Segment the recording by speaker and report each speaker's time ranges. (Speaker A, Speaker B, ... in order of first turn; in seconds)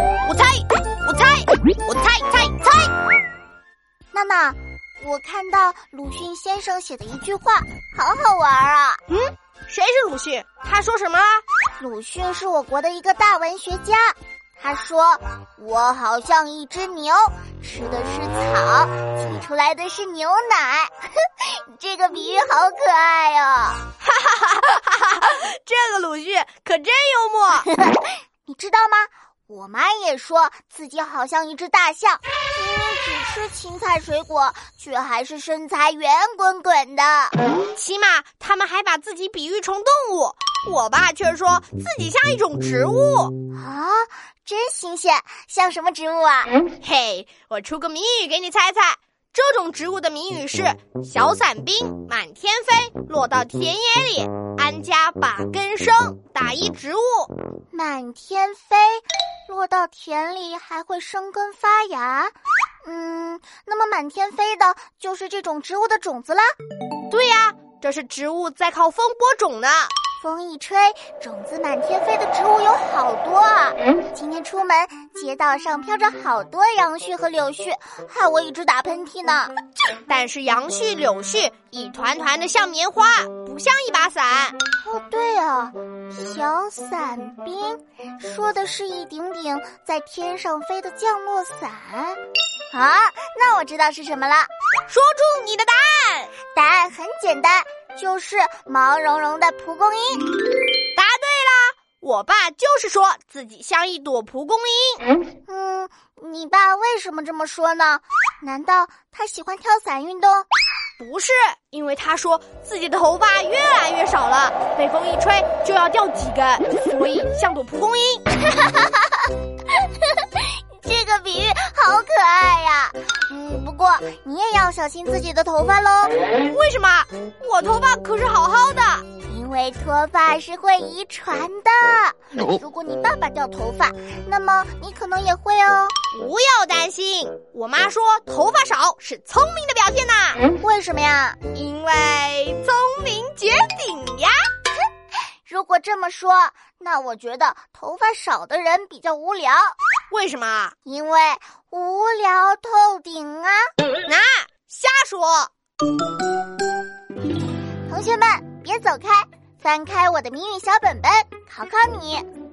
Speaker A: 0.3-2.9, 9.1-11.4, 24.0-27.7, 37.7-43.3, 46.8-57.3, 67.1-69.9, 80.1-84.6, 94.9-96.3, 100.9-105.1, 111.0-118.2, 126.5-129.1, 136.1-140.4, 141.5-144.5, 150.1-150.8, 154.1-155.5
Speaker B: 4.1-9.0, 11.8-23.8, 27.7-37.4, 43.5-46.5, 57.7-66.5, 70.2-79.5, 84.8-92.2, 92.7-94.5, 96.5-100.3, 105.5-110.5, 118.4-119.3, 119.8-126.2, 129.3-136.0, 140.6-141.4, 145.5-149.8, 150.8-153.7, 157.9-162.2